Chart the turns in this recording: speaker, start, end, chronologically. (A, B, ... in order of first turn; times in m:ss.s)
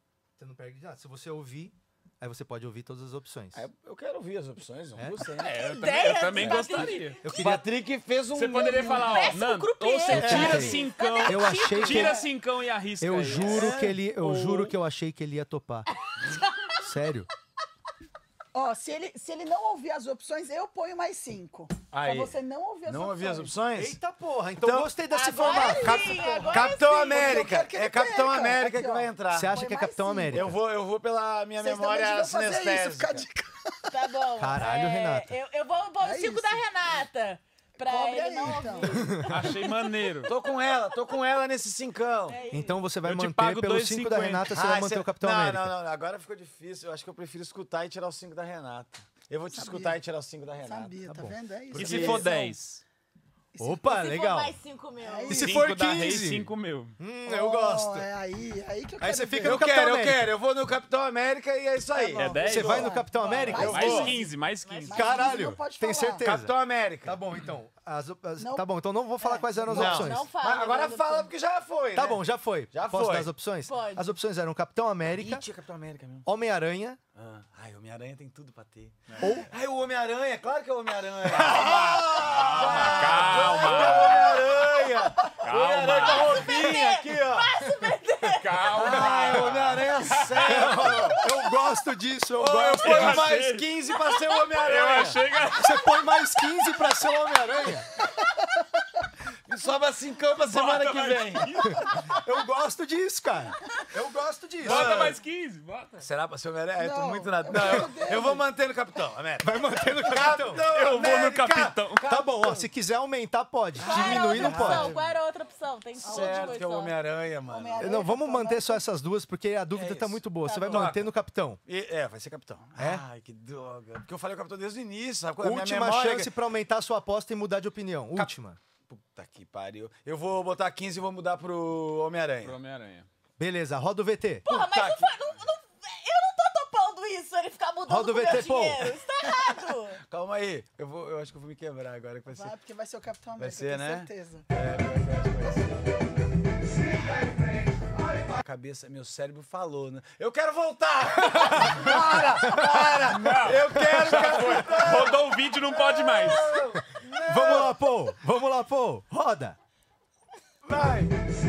0:00.4-0:03.7 A
0:03.5-0:05.7 B
0:05.4-0:07.2 C
0:05.4-0:07.2 D
0:06.4-0:09.2 B
0:07.2-0:07.6 A
0:08.3-0:14.8 C
0:08.8-0:12.2 D
0:10.1-0:12.3 A
0:10.2-0:10.7 B
0:13.0-0:15.9 A
0:13.4-0:14.0 B
0:16.8-0:17.3 A
0:18.5-0:23.6 E
0:21.9-0:24.0 B
0:23.8-0:26.1 A
0:24.6-0:24.9 B
0:25.1-0:27.5 D
0:25.4-0:30.6 E
0:25.6-0:29.6 B
0:29.3-0:30.6 A
0:30.3-0:33.2 B
0:31.6-0:33.9 E
0:33.9-0:39.4 D
0:34.4-0:35.3 A
0:36.0-0:36.6 E
0:37.8-0:39.2 E
0:38.9-0:39.4 A
0:39.3-0:40.3 C
0:40.2-0:42.4 B
0:42.3-0:42.8 D
0:42.5-0:45.8 A
0:43.0-0:44.5 C
0:44.5-0:51.0 B
0:49.5-0:50.0 E
0:50.6-0:52.5 E
0:51.1-0:51.4 A
0:51.7-0:52.3 B
0:51.7-0:52.8 C
0:53.6-0:54.6 A
0:53.8-0:55.4 D
0:55.0-0:55.6 E
0:55.3-0:57.0 C
0:55.3-0:58.1 A
0:57.3-0:59.6 E
0:59.0-1:00.3 A
0:59.4-1:04.1 B
1:01.9-1:04.3 E
1:02.2-1:05.1 C
1:02.4-1:03.9 A
1:04.1-1:05.0 D
1:04.9-1:06.3 E
1:04.9-1:10.3 A
1:06.2-1:07.2 B
1:08.4-1:08.7 E
1:09.2-1:10.1 E
1:09.7-1:13.3 B
1:09.8-1:11.3 D
1:12.0-1:15.5 A
1:13.7-1:14.1 D
1:15.1-1:16.3 B
1:16.2-1:17.0 A
1:17.1-1:27.5 B
1:19.2-1:19.5 A
1:21.4-1:24.6 C
1:23.6-1:23.9 D
1:25.4-1:26.5 C
1:26.0-1:28.7 D
1:27.7-1:28.0 A
1:28.3-1:30.9 C
1:28.7-1:31.2 B
1:30.4-1:33.5 A
1:32.4-1:35.3 B
1:32.8-1:33.7 C
1:34.5-1:35.9 C
1:35.6-1:37.9 A
1:39.5-1:41.7 B
1:40.5-1:42.1 C
1:41.9-1:45.0 A
1:44.6-1:46.1 C
1:44.6-1:45.2 B
1:46.0-1:52.7 B
1:46.8-1:48.5 E
1:49.4-1:50.7 A
1:50.7-1:52.2 C
1:52.0-1:54.9 A
1:53.8-1:55.0 B
1:53.8-1:57.0 D
1:56.0-1:56.6 E
1:56.0-1:58.0 B
1:57.4-1:58.8 E
1:57.8-2:01.6 A
1:59.7-2:01.1 B
2:00.4-2:00.9 D
2:01.7-2:06.3 B
2:02.8-2:03.0 A
2:05.4-2:08.6 A
2:08.9-2:12.6 B
2:12.4-2:13.1 C
2:13.4-2:14.5 A
2:14.5-2:15.1 B
2:14.5-2:20.0 D
2:17.9-2:19.0 A
2:20.1-2:22.5 B
2:22.3-2:24.5 E
2:23.4-2:26.0 B
2:28.4-2:37.8 B
2:31.2-2:33.1 A
2:33.1-2:36.6 C
2:33.8-2:34.8 A
2:37.0-2:39.6 A
2:40.6-2:41.2 B